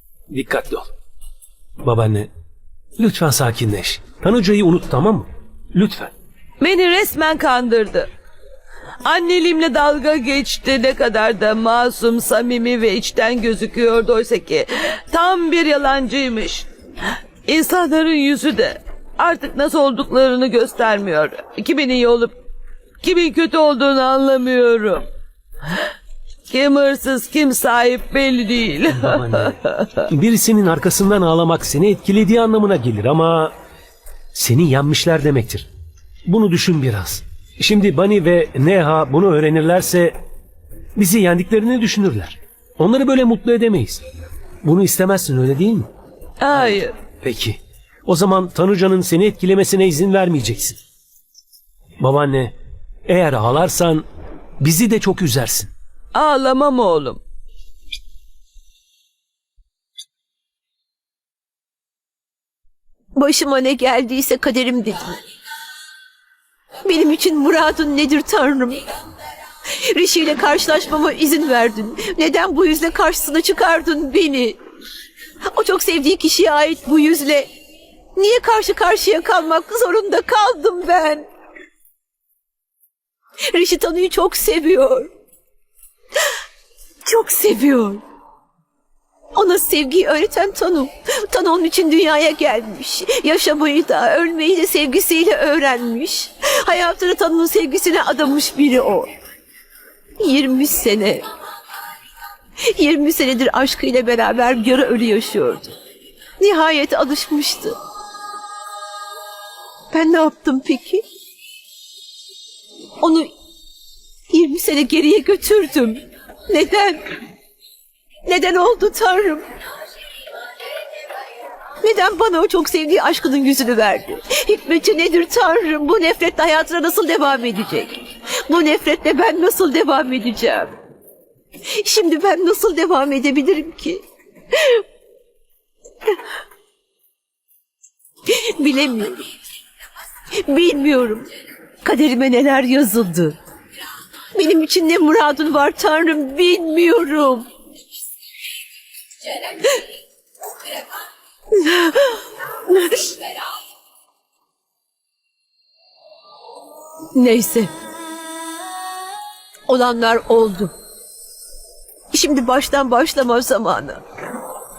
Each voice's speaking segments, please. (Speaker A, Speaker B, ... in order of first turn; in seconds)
Speaker A: 0.3-0.9, 1.8-2.3, 3.0-6.1, 29.0-29.5, 30.1-33.5, 34.3-35.7, 36.2-40.1, 41.0-44.0, 44.6-45.9, 47.2-50.8, 52.0-52.5, 53.0-54.1, 54.6-55.7
Speaker B: 6.6-8.1, 9.0-16.7, 17.4-22.4, 23.0-25.0, 26.5-30.0, 46.4-46.9, 56.1-57.2
Speaker C: 63.1-65.2, 66.8-68.8, 69.9-74.6, 75.5-77.5, 78.2-81.3, 83.5-85.1, 87.0-88.0, 89.3-99.1, 100.2-101.2, 102.7-105.7, 106.4-107.7, 109.9-111.0, 113.0-113.3, 114.3-117.0, 118.2-119.4, 121.8-130.7, 131.8-134.0, 138.3-139.2, 140.4-141.3, 141.8-143.4, 144.3-147.5, 151.6-152.1, 157.1-157.7, 159.7-160.7, 162.1-164.0